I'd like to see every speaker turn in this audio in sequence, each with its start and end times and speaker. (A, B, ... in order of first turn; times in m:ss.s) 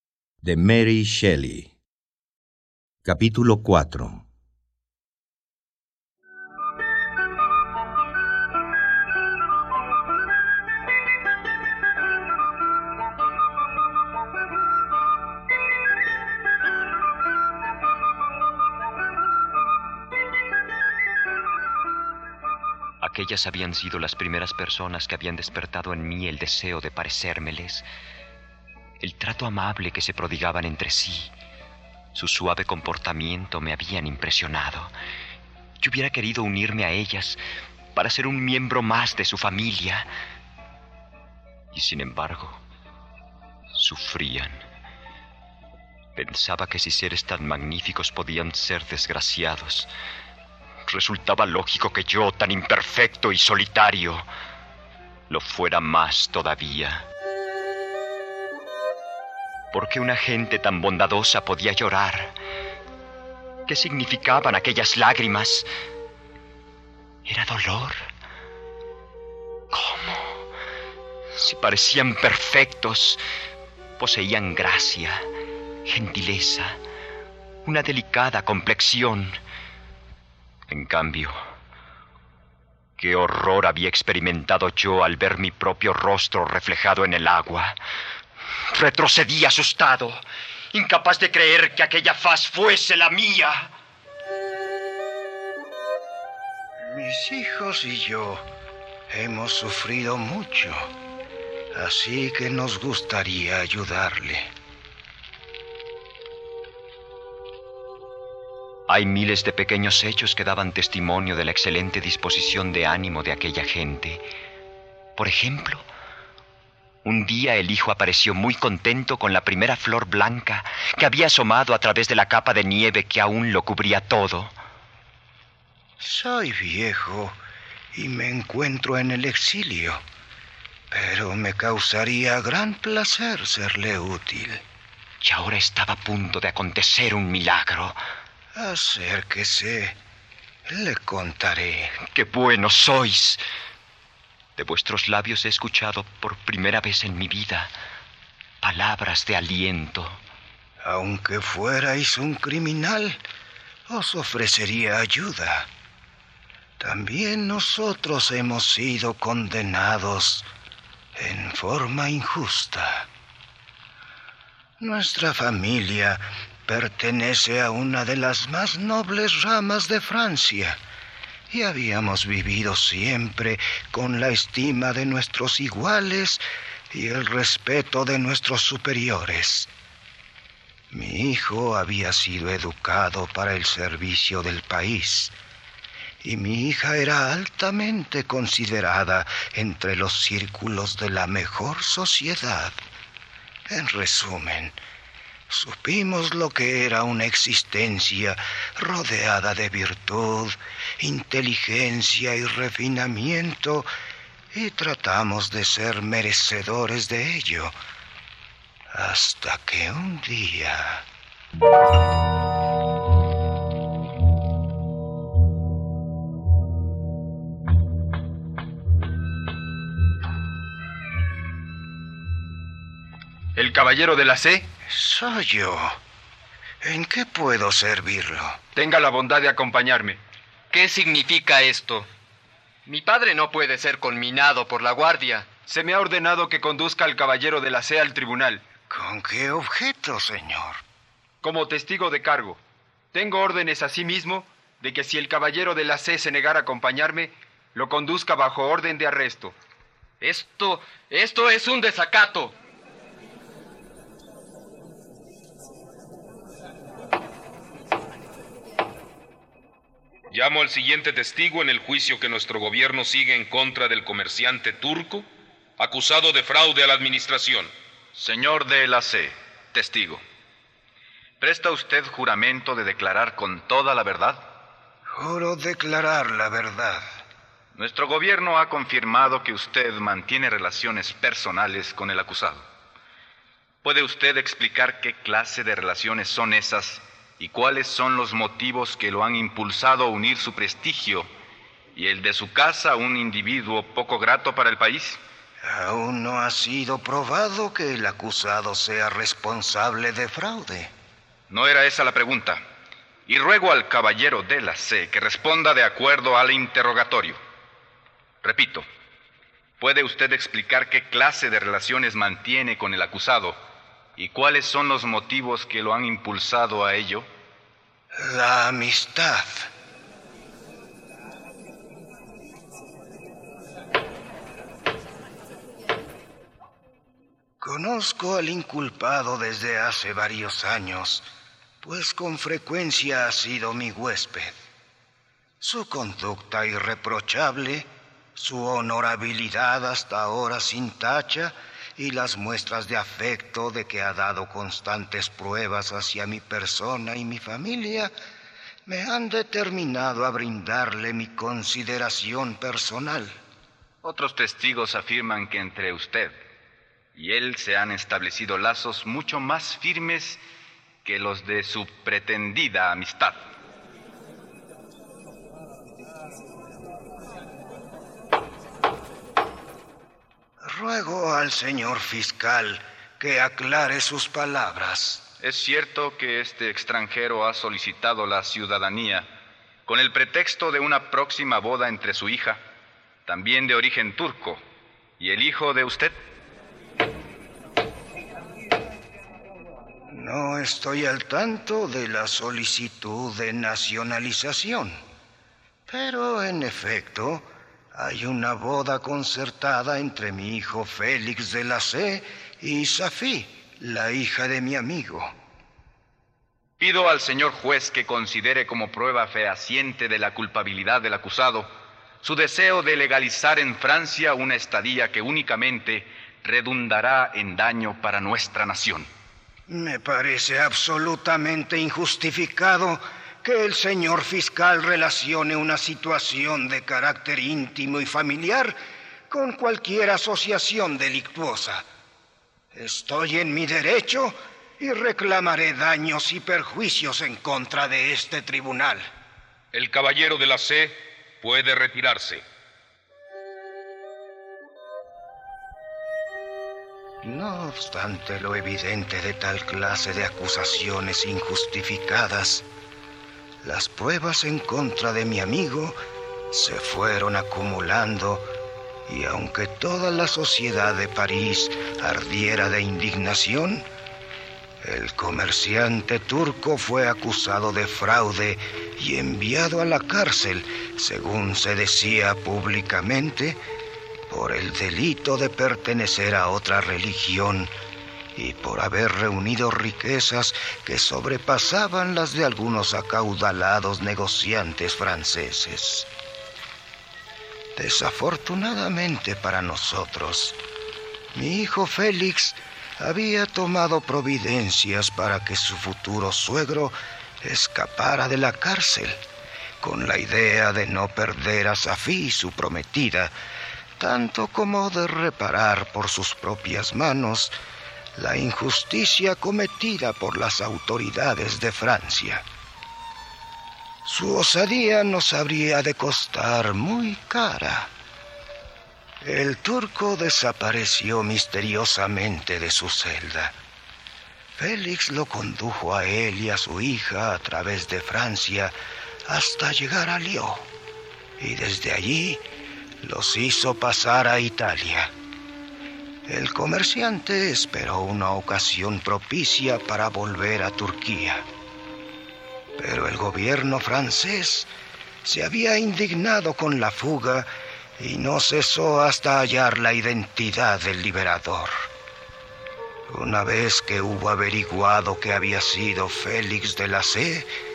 0:00.4-0:01.7 A
0:03.0-0:04.2 A
0:23.0-0:27.8 B
0:29.0-0:31.3 B
0:32.1-0:34.9 B
0:35.8-0:37.4 B
0:37.9-0:40.1 B
0:41.7-0:42.6 B
0:43.7-0:44.6 B
0:46.1-0:49.9 B
0:50.9-0:54.3 B
0:55.3-0:57.0 B
0:59.7-1:02.3 B
1:03.7-1:05.7 B
1:07.2-1:08.0 B
1:09.7-1:10.4 B
1:11.3-1:13.2 B
1:14.0-1:15.2 B
1:15.8-1:16.8 B
1:17.6-1:19.4 B
1:20.7-1:21.4 B
1:23.0-1:27.8 B
1:28.7-1:33.7 B
1:36.8-1:38.4 C
1:39.1-1:40.9 C
1:41.7-1:44.5 C
1:48.9-1:54.2 B
1:55.2-1:55.9 B
1:57.0-2:04.6 B
2:06.0-2:07.4 C
2:07.9-2:10.0 C
2:10.9-2:14.6 C
2:15.2-2:18.0 B
2:18.5-2:20.0 C
2:20.7-2:21.9 C
2:22.1-2:23.4 B
2:24.6-2:27.7 B
2:28.6-2:30.2 B
2:30.8-2:33.2 C
2:33.9-2:35.7 C
2:36.8-2:40.5 C
2:41.1-2:43.1 C
2:44.8-2:50.8 C
2:51.5-2:59.7 C
3:00.9-3:05.3 C
3:06.2-3:12.8 C
3:13.7-3:14.8 C
3:15.5-3:23.9 C
3:24.5-3:27.7 C
3:28.9-3:31.0 C
3:43.6-3:44.6 D
3:44.9-3:46.0 C
3:46.8-3:48.6 C
3:48.7-3:50.2 D
3:50.7-3:52.1 E
3:52.9-3:55.5 E
3:55.6-3:58.6 D
3:58.9-4:00.8 C
4:01.4-4:02.6 D
4:03.1-4:09.5 D
4:10.2-4:12.5 D
4:20.3-4:25.2 F
4:25.8-4:27.7 F
4:28.2-4:30.2 G
4:31.4-4:34.4 G
4:35.2-4:37.0 C
4:37.8-4:42.6 G
4:43.8-4:51.3 G
4:51.9-4:55.2 G
4:55.6-5:00.9 C
5:01.5-5:02.6 G
5:03.3-5:07.4 G
5:08.4-5:08.8 G
5:09.8-5:13.6 G
5:14.2-5:17.3 G
5:18.1-5:19.7 C
5:27.6-5:31.3 C
5:31.8-5:34.6 C
5:35.6-5:48.1 C
5:48.8-5:53.4 C
5:54.0-5:56.3 G
5:57.2-6:00.4 G
6:01.0-6:03.4 G
6:10.6-6:15.3 C
6:15.4-6:19.3 G
6:19.8-6:22.6 G
6:23.3-6:24.6 G
6:25.2-6:26.2 G
6:30.1-6:35.0 C
6:35.9-6:45.3 C
6:46.8-6:51.7 G
6:52.2-6:59.1 G
6:59.7-7:08.8 C
7:09.3-7:11.8 C
7:12.7-7:19.1 C
7:19.7-7:20.9 F
7:21.4-7:22.4 F
7:27.2-7:32.6 C
7:33.6-7:36.0 C
7:36.5-7:38.5 C
7:39.1-7:43.9 C
7:44.8-7:53.6 C
7:54.3-7:57.7 C
7:58.3-8:06.1 C
8:07.8-8:10.6 C
8:11.3-8:19.2 C
8:19.8-8:23.3 C
8:24.0-8:27.6 C
8:28.2-8:32.4 C
8:34.0-8:37.9 C
8:39.2-8:43.5 C
8:44.6-8:48.7 C
8:49.3-8:50.7 C
8:51.4-8:52.4 C
8:53.0-8:55.1 C
8:56.3-9:01.4 C
9:02.8-9:04.7 C
9:05.2-9:11.9 C
9:13.1-9:17.5 C